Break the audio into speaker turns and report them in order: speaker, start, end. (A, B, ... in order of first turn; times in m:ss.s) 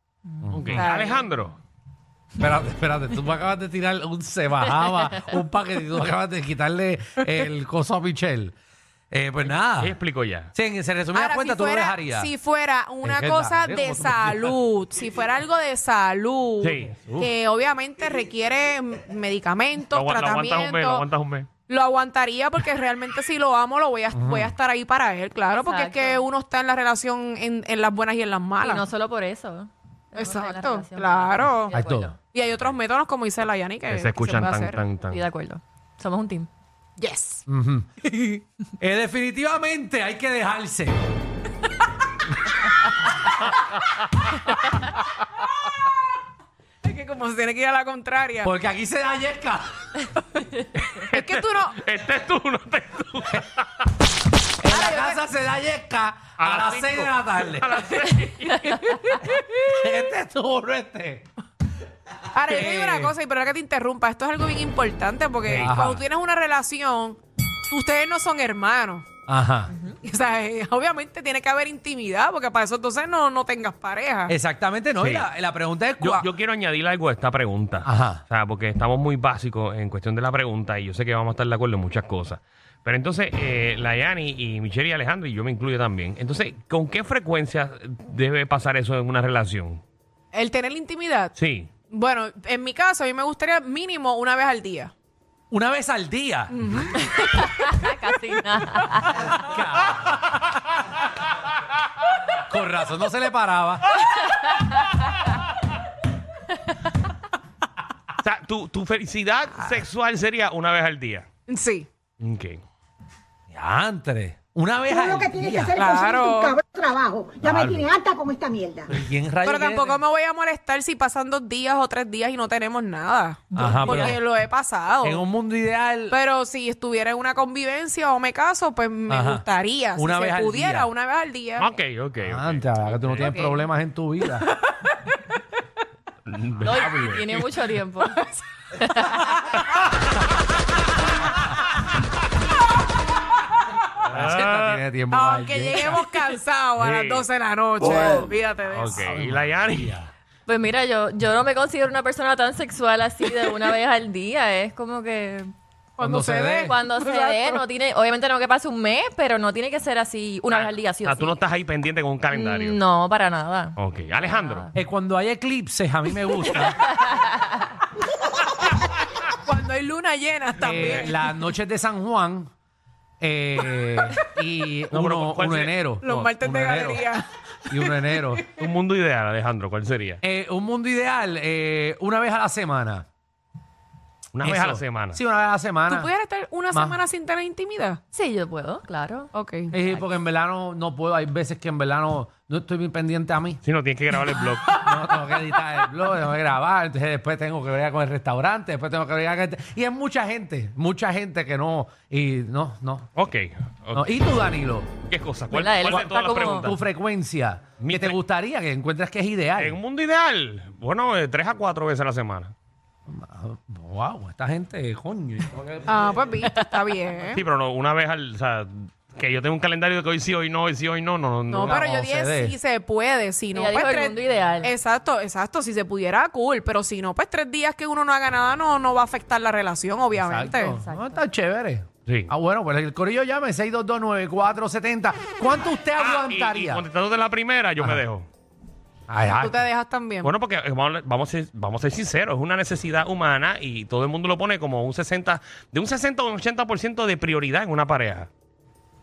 0:00.4-0:00.8 A
0:00.5-0:01.6 B
0:00.7-0:01.4 C
0:02.4-0:08.5 A
0:04.8-0:05.3 D
0:09.1-0:10.0 A
0:09.8-0:10.5 B
0:10.5-0:12.3 A
0:11.1-0:21.1 C
0:13.0-0:14.5 A
0:16.6-0:17.0 B
0:17.0-0:17.3 A
0:19.9-0:21.5 B
0:21.7-0:28.8 C
0:24.1-0:24.5 A
0:25.6-0:26.2 D
0:28.6-0:32.2 D
0:30.1-0:34.8 C
0:31.7-0:32.1 A
0:33.9-0:35.2 B
0:35.1-0:36.5 D
0:37.0-0:37.4 C
0:37.5-0:37.9 A
0:38.0-0:38.4 C
0:38.8-0:41.0 A
0:44.2-0:44.6 B
0:46.8-0:48.5 C
0:48.4-0:49.7 A
0:50.9-0:53.8 B
0:51.1-0:51.8 C
0:54.6-0:57.8 A
0:54.6-0:55.2 C
0:56.4-0:58.7 B
0:58.7-0:59.0 D
0:58.7-0:59.4 C
0:59.2-1:01.3 A
1:02.3-1:09.0 C
1:02.5-1:03.1 A
1:05.4-1:06.0 A
1:05.5-1:05.7 B
1:09.3-1:09.7 A
1:09.7-1:10.0 D
1:10.0-1:14.3 C
1:14.3-1:16.3 A
1:15.0-1:15.3 B
1:16.0-1:29.8 B
1:17.8-1:18.2 A
1:30.3-1:31.3 C
1:31.4-1:31.7 B
1:31.9-1:34.9 C
1:35.5-1:36.7 A
1:36.5-1:37.0 C
1:37.0-1:39.3 D
1:39.1-1:40.1 A
1:42.4-1:44.0 A
1:48.2-1:51.2 B
1:51.5-1:51.9 C
1:52.2-1:52.6 B
1:53.5-1:55.8 A
1:55.0-1:58.9 E
1:55.7-1:56.6 C
1:57.4-1:57.9 A
1:58.9-2:00.0 A
1:59.4-2:05.3 C
2:03.5-2:04.2 D
2:03.5-2:04.2 A
2:05.0-2:06.2 A
2:06.1-2:11.7 C
2:09.1-2:09.4 A
2:09.9-2:10.9 A
2:11.6-2:13.3 B
2:12.2-2:14.5 A
2:13.2-2:13.6 D
2:16.2-2:17.4 B
2:16.6-2:18.2 D
2:18.0-2:18.4 C
2:18.7-2:19.3 D
2:24.0-2:24.8 B
2:24.0-2:26.0 A
2:25.1-2:29.1 C
2:26.8-2:27.2 B
2:27.8-2:28.2 A
2:28.7-2:30.1 B
2:28.9-2:30.0 A
2:30.5-2:35.5 D
2:36.0-2:37.6 C
2:36.0-2:36.8 A
2:36.7-2:41.4 D
2:40.5-2:42.8 B
2:42.3-2:44.7 D
2:43.8-2:44.7 B
2:44.7-2:46.8 A
2:49.4-2:51.2 C
2:50.6-2:52.5 A
2:53.2-2:57.1 A
2:54.9-2:55.8 B
2:56.0-2:58.6 C
2:57.7-2:58.4 A
2:58.6-3:00.2 B
3:00.2-3:03.0 A
3:04.3-3:05.2 B
3:04.4-3:06.1 A
3:05.9-3:08.0 C
3:06.7-3:07.0 A
3:08.1-3:10.0 D
3:09.3-3:09.7 C
3:09.7-3:13.6 A
3:13.6-3:14.7 B
3:14.7-3:23.1 A
3:23.2-3:24.0 B
3:23.9-3:24.9 A
3:25.0-3:26.8 B
3:25.5-3:26.7 D
3:25.8-3:29.8 A
3:27.8-3:28.2 B
3:29.6-3:32.5 B
3:33.1-3:35.9 A
3:35.8-3:37.4 C
3:37.3-3:41.8 B
3:41.5-3:50.8 C
3:41.6-3:42.6 A
3:43.5-3:44.7 D
3:50.1-3:56.8 A
3:50.7-3:51.2 D
3:56.0-3:58.3 B
3:59.1-3:59.6 A
3:59.3-4:00.3 C
4:00.2-4:08.3 B